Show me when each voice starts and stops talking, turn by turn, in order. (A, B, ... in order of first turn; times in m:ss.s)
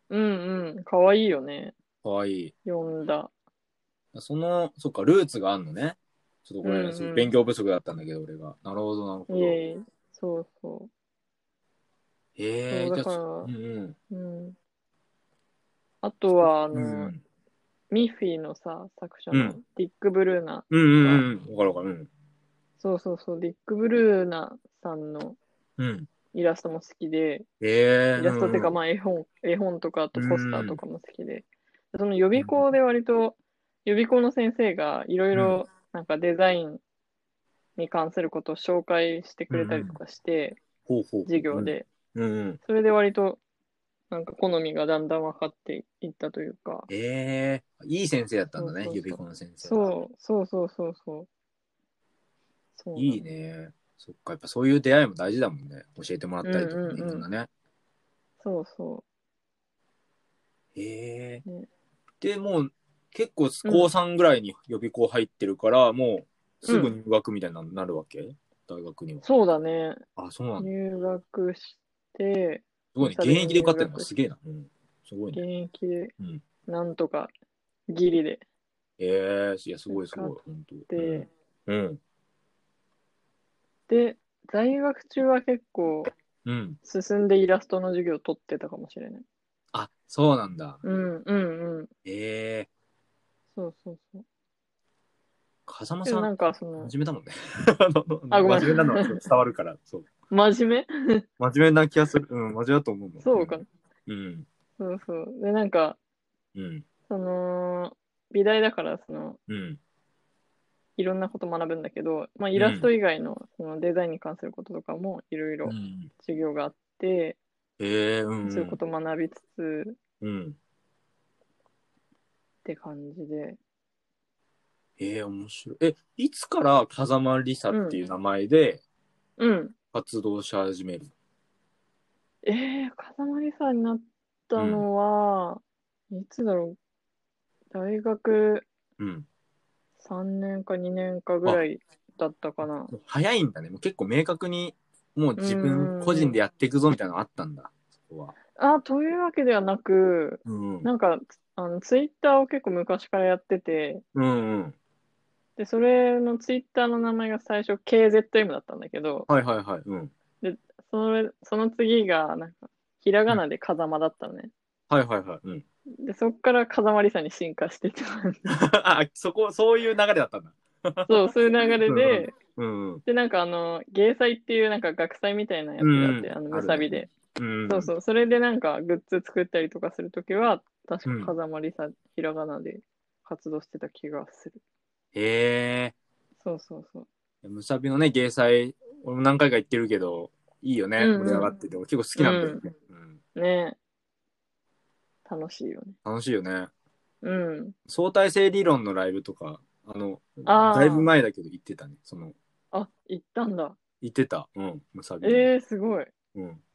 0:00.1-0:01.8 A
0:02.0-0:02.5 B
0:02.6-0:03.3 A
0:04.1-0:09.6 B
0:06.6-0:07.3 A
0:09.3-0:10.9 A
0:12.4-0:14.0 B
0:12.7-0:13.5 A
0:14.1-0:14.6 A
0:16.0-0:17.1 A
0:16.7-0:17.2 B
0:17.9-0:21.2 A
0:19.3-0:19.6 B
0:20.7-0:22.1 B
0:22.8-0:25.4 A
0:25.8-0:26.1 B
0:26.3-0:27.4 A
0:27.6-0:28.7 B
0:28.2-0:36.8 A
0:30.1-0:30.8 B
0:32.4-0:32.6 B
0:35.3-0:35.6 B
0:37.8-0:40.6 A
0:39.5-0:40.0 B
0:40.9-0:42.6 B
0:41.2-0:41.9 A
0:42.6-0:43.4 A
0:44.1-0:46.9 A
0:46.9-0:49.9 B
0:48.6-0:51.3 A
0:52.8-0:53.2 A
0:53.0-0:57.5 B
0:56.4-0:57.2 A
0:58.4-0:59.0 A
1:00.7-1:01.4 B
1:02.2-1:09.2 B
1:06.7-1:06.9 A
1:09.2-1:10.0 A
1:10.2-1:10.7 B
1:10.6-1:14.1 A
1:12.9-1:15.4 B
1:15.3-1:16.1 A
1:16.7-1:17.3 A
1:17.9-1:18.4 A
1:19.0-1:22.0 B
1:19.9-1:20.4 A
1:20.9-1:21.3 A
1:23.9-1:26.1 A
1:26.4-1:26.8 B
1:26.8-1:29.2 A
1:29.7-1:30.8 B
1:30.8-1:31.9 A
1:32.0-1:32.7 B
1:33.5-1:34.2 A
1:35.7-1:40.1 B
1:36.0-1:36.9 A
1:38.3-1:39.2 A
1:40.3-1:41.2 A
1:41.4-1:44.5 B
1:43.2-1:43.7 A
1:44.8-1:46.0 A
1:46.5-1:46.8 B
1:47.1-1:49.4 A
1:49.5-1:49.8 B
1:51.0-1:57.4 A
1:52.5-1:52.9 B
1:55.6-1:56.1 B
1:57.8-1:58.8 B
1:58.4-2:00.0 A
2:00.2-2:00.6 B
2:02.6-2:03.6 A
2:05.0-2:08.8 B
2:07.7-2:08.0 A
2:09.4-2:09.7 A
2:09.9-2:11.1 B
2:12.4-2:16.8 A
2:14.6-2:14.8 B
2:17.7-2:18.7 A
2:19.0-2:19.2 B
2:20.0-2:22.9 A
2:22.6-2:28.3 B
2:25.4-2:26.4 A
2:28.6-2:34.0 A
2:30.4-2:30.9 B
2:34.1-2:34.8 B
2:35.6-2:39.3 A
2:39.3-2:40.1 B
2:40.4-2:44.5 A
2:44.9-2:45.6 B
2:46.0-2:48.4 A
2:48.5-2:51.2 B
2:51.1-2:52.3 A
2:51.8-2:53.0 B
2:53.0-2:57.1 A
2:55.8-2:57.9 B
2:57.7-3:04.6 A
3:01.0-3:01.3 B
3:05.1-3:05.9 B
3:06.4-3:07.1 A
3:07.4-3:13.2 B
3:11.0-3:11.5 A
3:12.2-3:12.6 A
3:13.3-3:13.8 A
3:15.2-3:16.0 A
3:16.0-3:16.7 B
3:17.2-3:17.8 A
3:17.9-3:22.3 B
3:20.4-3:21.1 A
3:22.7-3:23.8 A
3:24.0-3:25.5 B
3:25.2-3:26.1 A
3:26.3-3:26.6 B